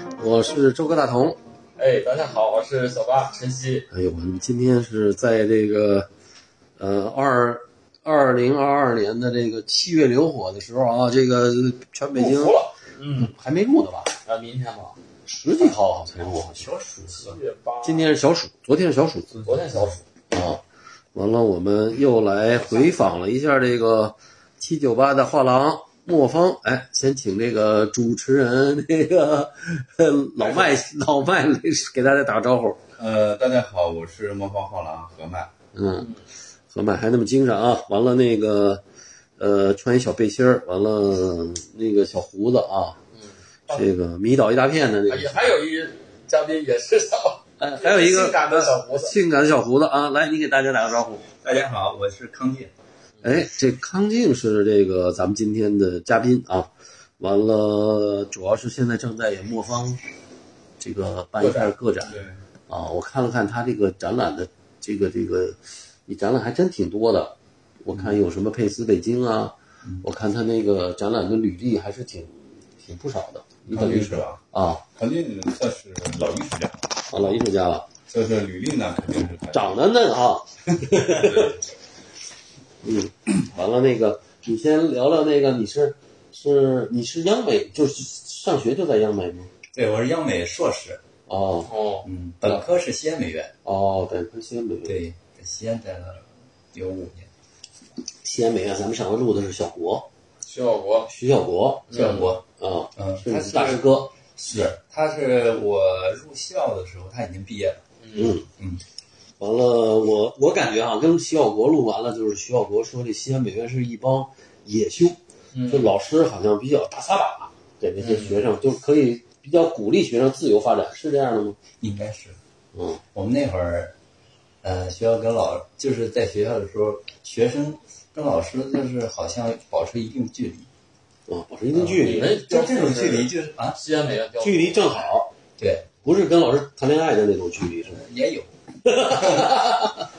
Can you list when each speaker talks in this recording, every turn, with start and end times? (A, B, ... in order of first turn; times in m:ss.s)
0:00.2-0:01.4 A
0:01.8-0:03.9 B
0:03.9-0:06.1 A
0:06.8-0:12.6 A
0:12.1-0:13.3 B
0:13.1-0:14.1 A
0:14.2-0:15.0 B
0:15.3-0:17.3 A
0:16.2-0:17.3 C
0:17.2-0:18.1 B
0:17.8-0:19.4 A
0:19.4-0:20.0 B
0:20.3-0:20.6 A
0:21.1-0:32.8 A
0:22.5-0:23.0 B
0:33.0-0:35.5 D
0:35.7-0:36.2 A
0:36.7-0:38.8 A
0:39.4-0:43.0 A
0:43.7-0:45.6 A
0:45.1-0:49.1 B
0:47.6-0:51.2 A
0:51.4-0:52.7 C
0:53.2-1:00.0 A
1:00.8-1:02.2 A
1:01.4-1:01.7 B
1:02.0-1:02.4 D
1:02.7-1:14.8 A
1:13.7-1:14.4 D
1:14.9-1:17.4 D
1:17.1-1:17.9 A
1:18.1-1:19.8 D
1:19.5-1:21.6 A
1:20.8-1:21.6 D
1:22.8-1:29.5 A
1:29.7-1:31.0 C
1:31.3-1:31.7 A
1:31.7-1:32.1 B
1:32.0-1:33.5 C
1:33.6-1:35.0 A
1:34.8-1:37.3 C
1:38.2-1:40.1 A
1:40.4-1:41.1 B
1:41.1-1:44.2 A
1:41.9-1:42.3 B
1:41.9-1:42.4 C
1:43.0-1:47.8 C
1:48.0-1:48.3 B
1:48.2-1:48.5 A
1:49.4-2:01.6 A
1:55.5-1:55.9 B
1:58.0-1:58.4 B
2:01.8-2:02.4 C
2:02.7-2:03.0 A
2:03.1-2:03.9 C
2:04.6-2:10.7 C
2:11.3-2:12.3 A
2:11.8-2:13.8 C
2:11.9-2:14.9 B
2:14.4-2:15.3 A
2:15.6-2:15.9 C
2:16.0-2:18.0 A
2:17.9-2:19.6 C
2:18.8-2:19.6 A